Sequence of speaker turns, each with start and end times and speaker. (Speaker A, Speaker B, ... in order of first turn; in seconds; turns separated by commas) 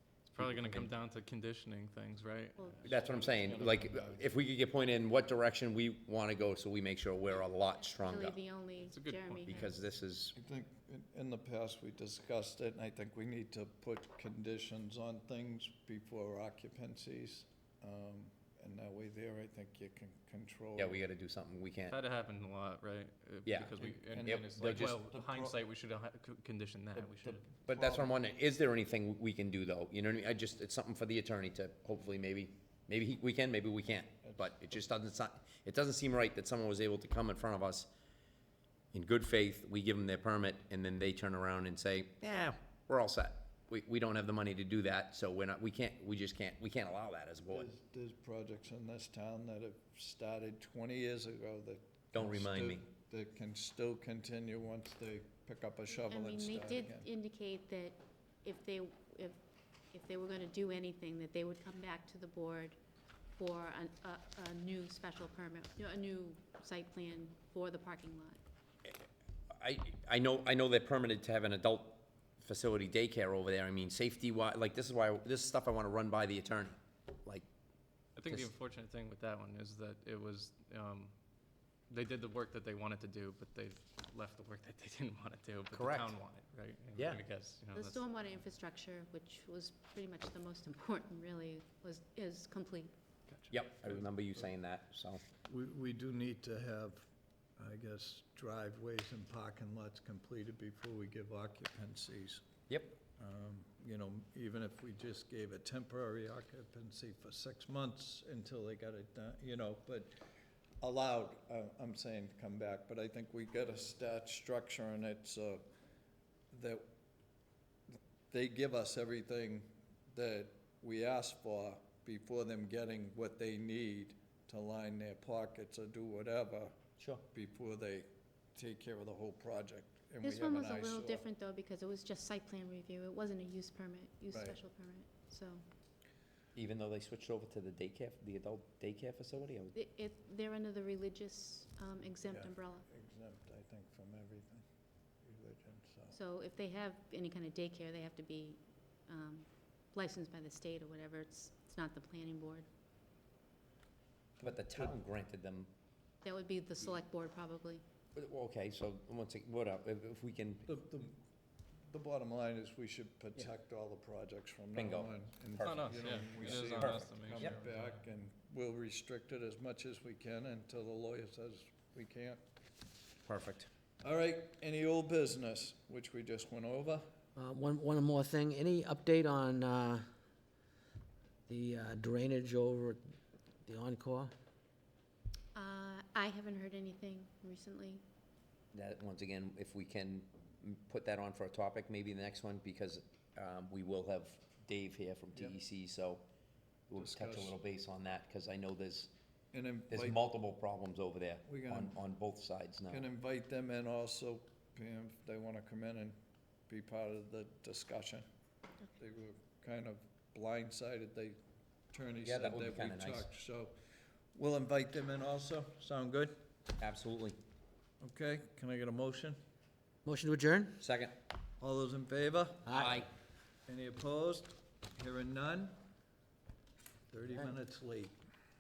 Speaker A: 0.3-4.3, Speaker B: 0.4-0.9, Speaker C: 2.6-3.0, Speaker B: 2.8-8.4, Speaker C: 8.0-9.7, Speaker A: 8.8-9.7, Speaker B: 9.4-10.3, Speaker D: 10.3-21.0, Speaker B: 20.8-21.9, Speaker A: 21.9-27.5, Speaker B: 23.5-25.0, Speaker D: 23.8-25.6, Speaker D: 27.0-28.1, Speaker B: 27.7-37.9, Speaker B: 38.9-47.7, Speaker D: 47.5-57.1, Speaker B: 52.1-52.9, Speaker C: 56.0-59.4, Speaker C: 59.9-62.8, Speaker C: 63.4-68.4, Speaker B: 68.8-77.5, Speaker A: 78.2-81.1, Speaker B: 78.2-78.5, Speaker A: 81.9-88.0, Speaker B: 85.7-86.1, Speaker B: 87.0-87.2, Speaker C: 87.8-92.9, Speaker B: 93.5-95.2, Speaker D: 95.5-102.4, Speaker B: 102.7-103.0, Speaker D: 103.1-110.1, Speaker D: 110.8-115.7, Speaker D: 116.5-116.8, Speaker D: 117.9-126.8, Speaker D: 127.3-131.3, Speaker C: 130.2-135.6, Speaker D: 134.3-134.6, Speaker B: 136.6-139.7, Speaker C: 139.7-142.8, Speaker D: 142.2-144.7, Speaker D: 145.2-146.2, Speaker C: 146.1-152.7, Speaker D: 154.4-154.9, Speaker B: 154.4-155.7, Speaker C: 156.2-157.8, Speaker B: 158.2-160.8, Speaker D: 160.7-161.2, Speaker D: 161.9-172.4, Speaker B: 164.8-167.6, Speaker A: 165.6-167.9, Speaker B: 173.3-173.7, Speaker D: 174.0-177.1, Speaker E: 177.4-180.1, Speaker E: 181.5-184.3, Speaker C: 185.6-188.0, Speaker B: 188.7-196.2, Speaker B: 196.9-199.1, Speaker D: 196.9-197.6, Speaker D: 199.5-200.2, Speaker B: 199.9-203.0, Speaker D: 201.4-202.0, Speaker D: 202.9-206.2, Speaker D: 206.7-208.2, Speaker D: 209.0-211.4, Speaker D: 211.9-213.8, Speaker B: 212.2-213.3, Speaker D: 214.3-216.4, Speaker B: 216.8-217.4, Speaker D: 218.0-219.4, Speaker E: 220.1-220.8, Speaker B: 220.8-221.2, Speaker D: 221.6-222.9, Speaker E: 222.7-223.0, Speaker B: 222.7-223.1, Speaker D: 223.7-225.8, Speaker D: 227.1-228.2